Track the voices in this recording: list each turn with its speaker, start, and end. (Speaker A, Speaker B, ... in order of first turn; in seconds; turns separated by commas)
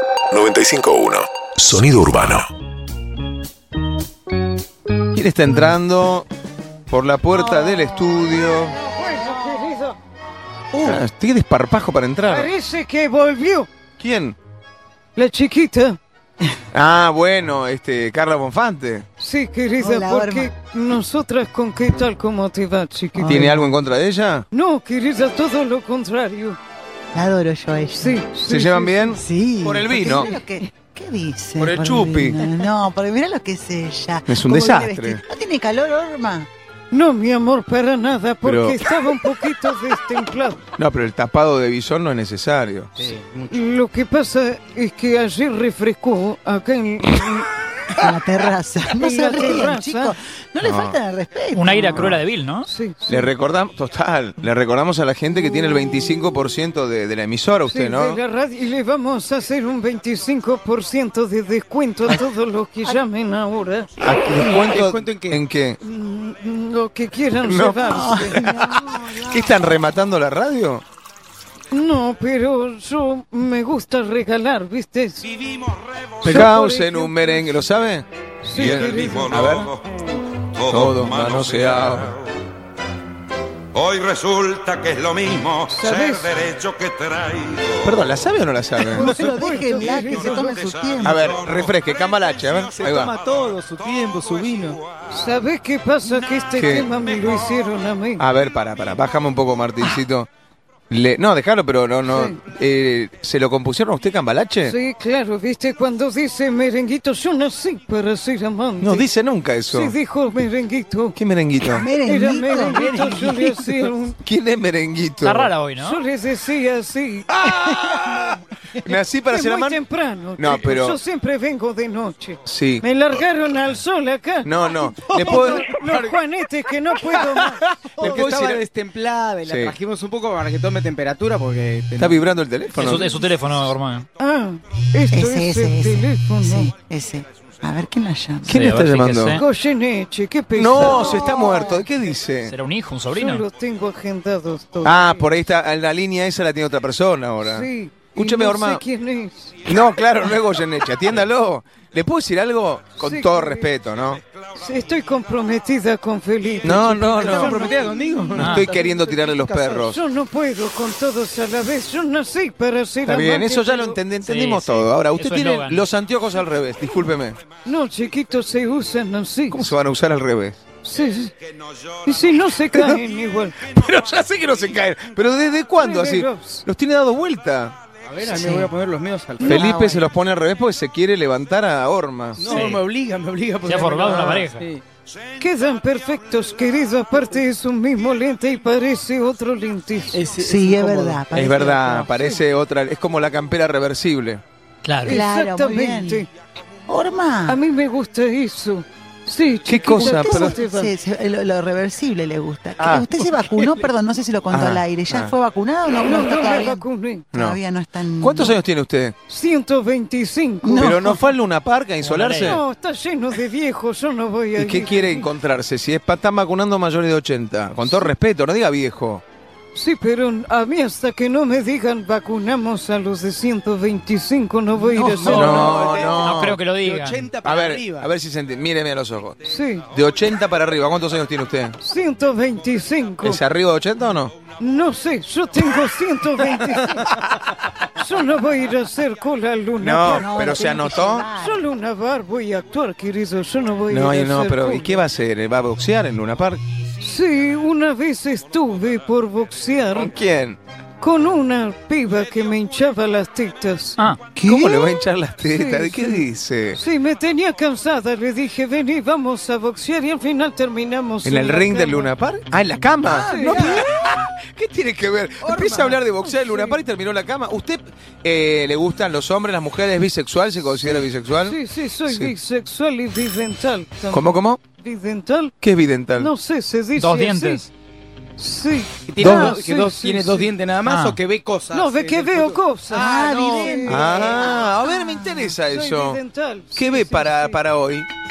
Speaker A: 0.3-2.5, Speaker B: 5.1-6.3, Speaker B: 6.9-8.8, Speaker C: 7.5-8.1, Speaker C: 8.6-10.0, Speaker B: 10.8-12.5, Speaker C: 12.3-13.7, Speaker B: 14.0-14.4, Speaker C: 15.1-16.0, Speaker B: 16.7-19.0, Speaker C: 19.2-23.6, Speaker D: 19.8-20.5, Speaker D: 23.1-23.7, Speaker B: 23.2-24.4, Speaker C: 24.5-26.6, Speaker D: 27.1-28.2, Speaker C: 27.9-29.2, Speaker B: 28.4-30.3, Speaker D: 29.1-36.5, Speaker B: 31.6-32.5, Speaker B: 34.3-35.2, Speaker C: 36.9-40.6, Speaker B: 38.4-38.8, Speaker B: 40.8-42.9, Speaker E: 43.0-43.6, Speaker C: 43.5-47.5, Speaker D: 47.9-52.1, Speaker C: 49.0-50.1, Speaker B: 50.6-51.0, Speaker F: 51.5-52.7, Speaker B: 52.0-52.2, Speaker C: 52.6-53.3, Speaker B: 53.1-58.2, Speaker C: 57.7-63.9, Speaker B: 64.0-65.8, Speaker E: 64.3-65.4, Speaker C: 65.8-68.5, Speaker B: 67.4-70.8, Speaker D: 67.9-69.7, Speaker C: 71.7-75.3, Speaker C: 76.2-77.5, Speaker B: 76.2-79.7, Speaker C: 78.4-79.4, Speaker B: 80.6-82.2, Speaker G: 83.7-85.6, Speaker C: 85.7-86.6, Speaker G: 86.3-87.7, Speaker B: 87.8-89.1, Speaker C: 88.9-90.6, Speaker D: 88.9-91.2, Speaker B: 91.0-93.2, Speaker E: 92.8-94.8, Speaker C: 95.1-98.2, Speaker B: 96.5-96.9, Speaker B: 98.2-100.3, Speaker B: 100.9-104.8, Speaker C: 102.1-102.4, Speaker C: 104.6-109.1, Speaker B: 108.8-109.9, Speaker C: 109.7-111.2, Speaker B: 111.2-111.9, Speaker D: 111.7-113.9, Speaker C: 112.0-114.2, Speaker B: 114.2-115.5, Speaker F: 115.2-116.0, Speaker C: 115.8-117.4, Speaker B: 117.3-119.8, Speaker C: 119.3-128.2, Speaker B: 120.4-121.0, Speaker B: 122.5-123.0, Speaker B: 124.4-125.7, Speaker E: 125.1-126.1, Speaker E: 127.8-132.2, Speaker B: 128.0-128.6, Speaker B: 129.4-129.8, Speaker B: 132.0-133.1, Speaker F: 132.7-134.1, Speaker C: 134.2-136.7, Speaker D: 135.1-138.7, Speaker B: 138.5-139.4, Speaker F: 138.5-139.4, Speaker C: 139.3-141.8, Speaker B: 140.5-142.5, Speaker D: 140.8-141.7, Speaker F: 142.4-143.4, Speaker C: 143.1-145.1, Speaker B: 144.8-148.8, Speaker C: 147.4-149.6, Speaker B: 149.6-154.2, Speaker C: 153.0-153.7, Speaker C: 154.5-158.0, Speaker B: 156.6-157.6, Speaker E: 156.7-159.9, Speaker F: 158.3-158.7, Speaker B: 158.3-160.0, Speaker C: 159.9-164.0, Speaker B: 163.1-167.4, Speaker F: 164.2-165.8, Speaker C: 167.6-169.7, Speaker B: 169.5-170.6, Speaker C: 170.8-171.3, Speaker C: 172.0-173.6, Speaker B: 172.7-173.0, Speaker B: 173.6-177.8, Speaker C: 175.8-176.6, Speaker E: 178.1-179.8, Speaker D: 178.3-178.7, Speaker C: 179.4-179.8, Speaker B: 179.4-182.6, Speaker D: 179.5-180.0, Speaker E: 182.4-184.8, Speaker F: 182.5-182.8, Speaker F: 183.6-184.7, Speaker C: 185.4-190.2, Speaker E: 190.1-191.3, Speaker D: 190.4-192.2, Speaker B: 191.3-194.4, Speaker F: 194.8-195.2, Speaker C: 195.0-196.3, Speaker D: 195.0-196.3, Speaker D: 196.9-197.6, Speaker C: 197.5-200.9, Speaker B: 199.7-200.6, Speaker D: 199.9-208.6, Speaker B: 202.8-203.1, Speaker B: 204.5-205.3, Speaker C: 206.0-207.3, Speaker B: 207.3-207.6, Speaker B: 208.2-209.1, Speaker C: 209.3-211.1, Speaker D: 210.6-211.3, Speaker B: 210.7-212.6, Speaker F: 212.0-212.6, Speaker C: 212.4-215.2, Speaker B: 214.6-219.2, Speaker C: 219.7-225.8, Speaker E: 224.9-228.1, Speaker F: 225.3-225.6, Speaker B: 225.3-226.6, Speaker F: 226.2-227.2, Speaker B: 227.4-229.4, Speaker C: 229.4-229.9, Speaker B: 229.9-231.8, Speaker C: 231.8-233.4, Speaker B: 233.2-234.3, Speaker C: 234.6-237.2, Speaker C: 237.9-240.3, Speaker B: 239.8-241.3, Speaker D: 240.1-241.6, Speaker C: 241.3-244.9, Speaker B: 243.9-246.6, Speaker C: 247.0-250.1, Speaker B: 249.9-250.6, Speaker C: 251.0-254.0, Speaker D: 254.3-255.0, Speaker B: 254.4-256.8, Speaker C: 255.4-262.1, Speaker B: 261.2-272.3, Speaker D: 263.1-263.8, Speaker C: 263.2-263.8, Speaker E: 265.4-266.1, Speaker C: 271.4-275.5, Speaker B: 274.1-274.6, Speaker B: 275.6-276.3, Speaker C: 276.1-277.6, Speaker F: 276.9-277.7, Speaker C: 278.4-280.5, Speaker E: 279.1-283.8, Speaker B: 279.2-279.6, Speaker F: 280.8-281.2, Speaker C: 281.7-284.7, Speaker D: 282.9-285.4, Speaker B: 283.8-286.2, Speaker C: 285.6-287.6, Speaker B: 286.7-288.1